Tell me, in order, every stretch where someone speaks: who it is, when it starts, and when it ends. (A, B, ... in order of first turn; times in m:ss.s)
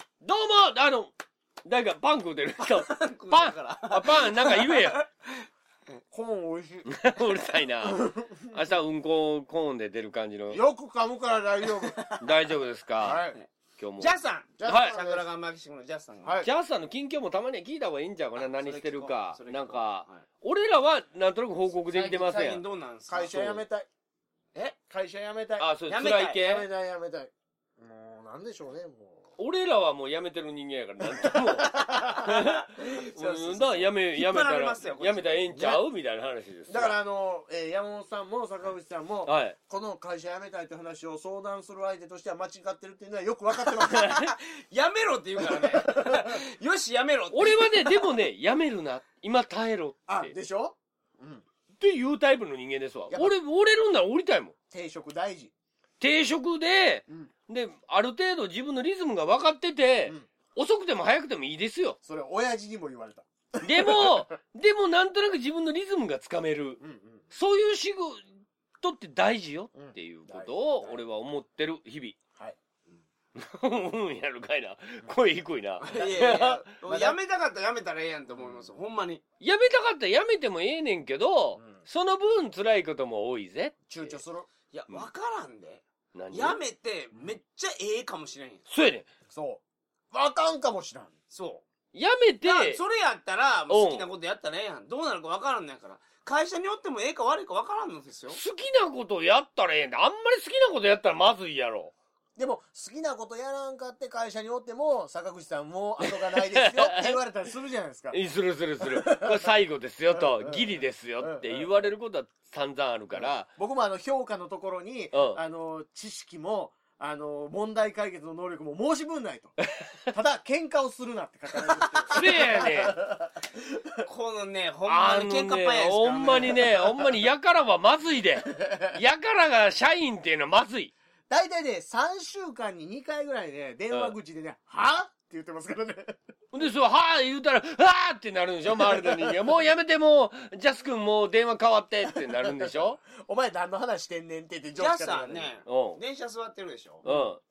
0:00.2-0:01.1 A
0:01.6-0:05.0 A
0:02.6-0:06.0 B
0:06.1-0:06.9 C
0:06.9-0:10.6 A
0:07.8-0:08.6 C
0:10.5-0:12.0 C
0:11.7-0:12.3 B
0:12.2-0:13.2 A
0:13.0-0:13.4 C
0:13.8-0:14.1 A
0:14.0-0:16.4 B
0:14.6-0:15.2 C
0:14.6-0:15.0 A
0:16.4-0:22.6 A
0:18.4-0:20.2 B
0:21.9-0:23.6 B
0:23.1-0:23.9 C
0:24.9-0:25.7 C
0:25.6-0:26.7 A
0:25.9-0:26.4 B
0:26.4-0:29.2 C
0:29.4-0:37.0 A
0:31.0-0:32.4 C
0:32.2-0:35.8 B
0:36.7-0:44.2 C
0:39.3-0:39.6 A
0:43.8-0:44.3 A
0:43.9-0:48.0 B
0:45.4-0:46.4 C
0:47.3-0:50.3 A
0:50.1-0:51.4 C
0:51.8-0:54.6 A
0:54.7-0:55.5 C
0:56.0-1:02.0 A
1:02.0-1:04.2 C
1:03.6-1:06.8 A
1:06.8-1:07.2 C
1:07.3-1:08.2 A
1:08.8-1:12.2 A
1:09.8-1:11.0 C
1:13.4-1:16.6 A
1:15.8-1:19.2 B
1:15.9-1:17.2 C
1:19.4-1:23.8 A
1:23.9-1:24.5 C
1:24.7-1:28.6 B
1:26.1-1:26.6 A
1:28.7-1:29.1 A
1:29.3-1:31.1 C
1:31.3-1:31.6 B
1:31.9-1:32.8 A
1:32.4-1:38.4 B
1:33.7-1:34.0 A
1:38.3-1:41.9 A
1:42.4-1:48.2 C
1:46.0-1:47.2 A
1:48.1-1:53.5 A
1:48.8-1:49.5 C
1:50.1-1:51.9 C
1:53.1-2:04.0 C
1:55.1-1:55.4 A
2:02.0-2:02.3 B
2:02.1-2:03.0 A
2:04.0-2:06.7 B
2:04.9-2:10.9 A
2:06.2-2:07.0 C
2:08.6-2:09.0 C
2:11.3-2:16.2 C
2:16.5-2:23.0 A
2:18.8-2:19.4 C
2:22.1-2:25.5 C
2:24.8-2:27.1 B
2:25.6-2:26.0 A
2:27.0-2:27.3 C
2:27.0-2:27.4 A